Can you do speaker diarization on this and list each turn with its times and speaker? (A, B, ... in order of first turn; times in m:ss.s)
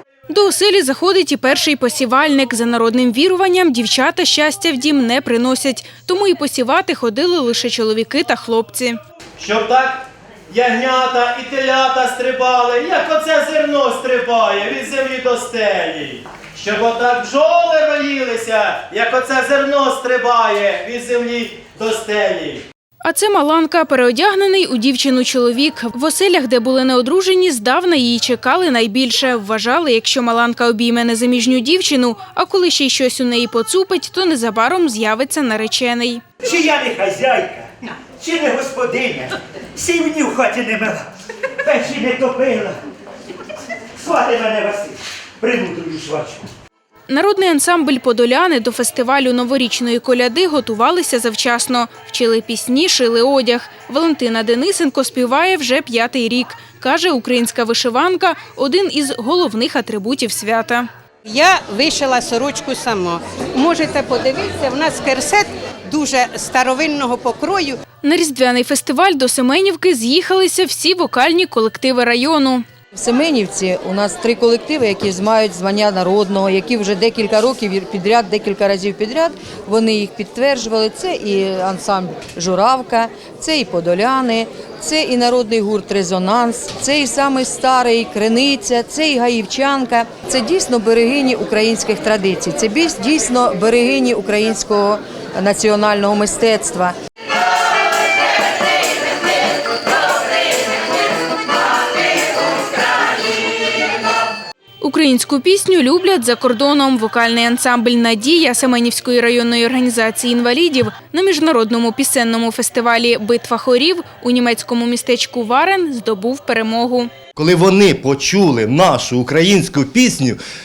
0:00.3-0:09.0 A
0:09.4-0:22.6 B
0:23.0-0:36.2 A
0:36.4-0:41.1 C
0:41.6-0:42.8 C
0:43.9-0:46.5 C
0:47.1-1:00.9 A
1:01.2-1:07.8 D
1:08.0-1:12.6 A
1:12.9-1:36.9 E
1:44.8-1:57.1 A
1:57.4-2:00.4 F